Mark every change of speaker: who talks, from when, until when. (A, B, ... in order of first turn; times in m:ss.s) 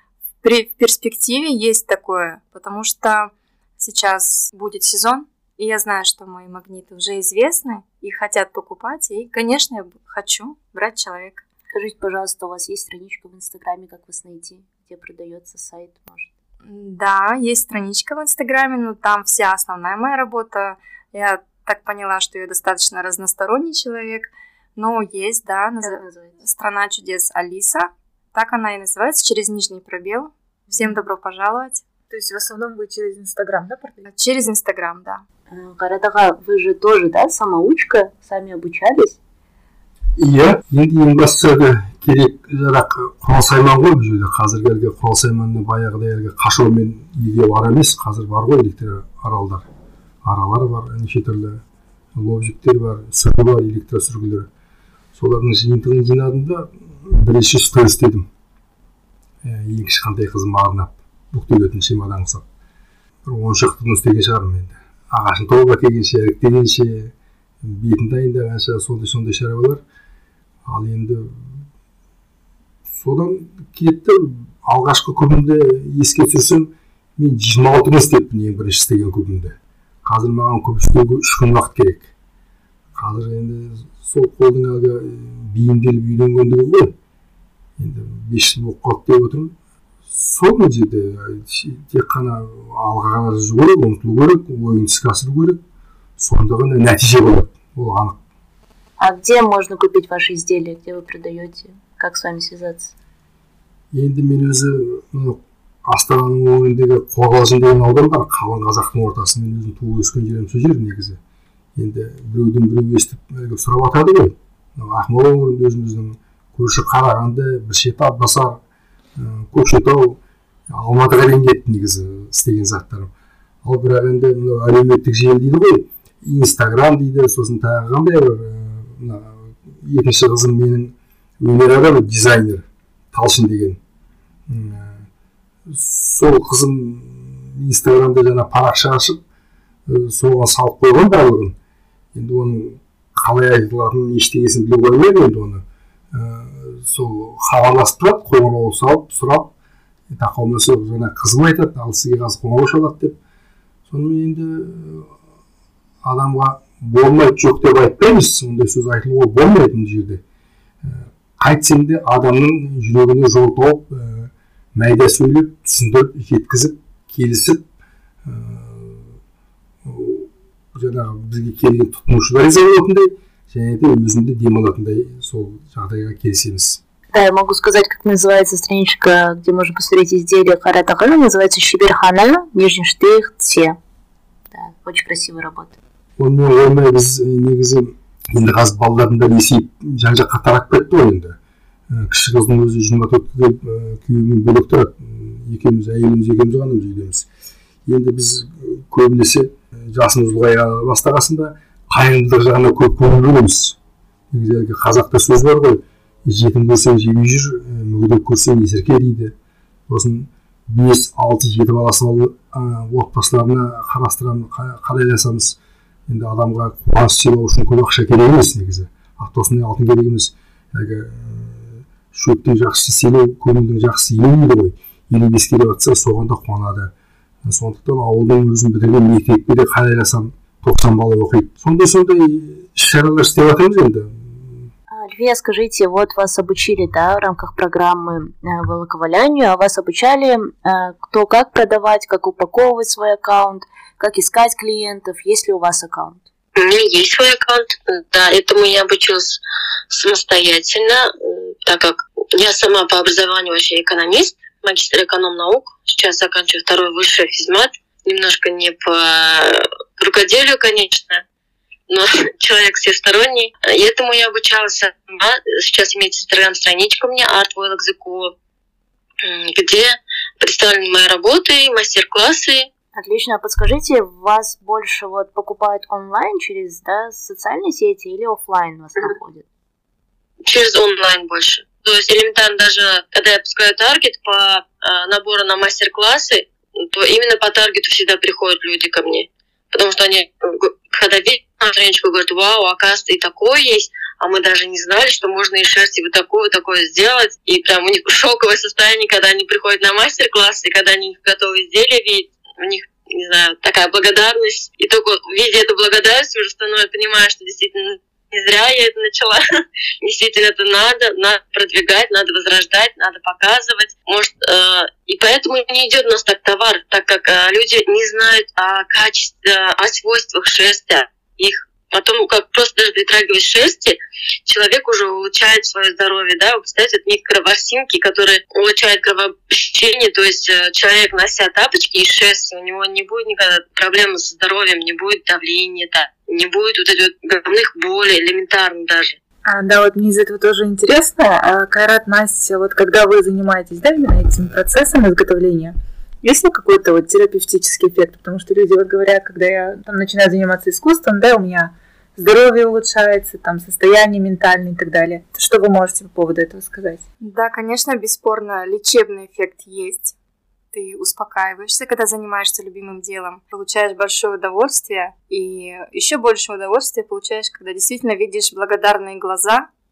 0:00.4-0:11.4 A
0:11.7-0:16.3 B
0:16.6-0:31.8 A
0:25.8-0:26.3 B
0:32.1-0:34.1 C
0:34.0-0:35.2 A
0:35.5-0:39.2 B
0:40.2-0:49.7 D
0:50.2-0:51.6 D
0:52.1-0:54.5 D
0:55.1-0:58.3 D
0:59.4-1:02.4 D
1:03.2-1:09.8 D
1:10.6-1:11.5 D
1:12.9-1:22.1 D
1:23.0-1:26.9 D
1:27.8-1:29.5 D
1:30.1-1:35.6 D
1:36.2-1:38.2 D
1:39.0-1:42.9 B
1:43.9-1:51.2 D
1:51.7-1:58.6 D
1:59.2-2:03.1 D
2:03.6-2:13.8 D
2:14.5-2:15.0 D
2:15.7-2:19.2 D
2:19.9-2:21.6 D
2:22.1-2:29.5 D
2:30.1-2:33.2 D
2:33.9-2:35.1 D
2:36.0-2:40.2 D
2:40.8-2:47.6 D
2:48.2-2:49.1 D
2:49.8-2:56.8 D
2:57.1-3:03.8 B
3:04.5-3:05.8 B
3:06.2-3:11.4 D
3:11.9-3:17.3 D
3:17.8-3:23.8 D
3:24.3-3:29.3 D
3:29.9-3:46.9 D
3:47.4-3:54.7 D
3:54.9-4:06.2 B
4:06.6-4:21.2 E
4:21.9-4:28.3 E
4:29.2-4:32.7 E
4:32.9-4:39.4 B
4:40.4-5:09.4 E
5:10.0-5:39.2 E
5:39.4-5:57.0 C
5:57.2-6:00.1 A
6:00.7-6:09.7 A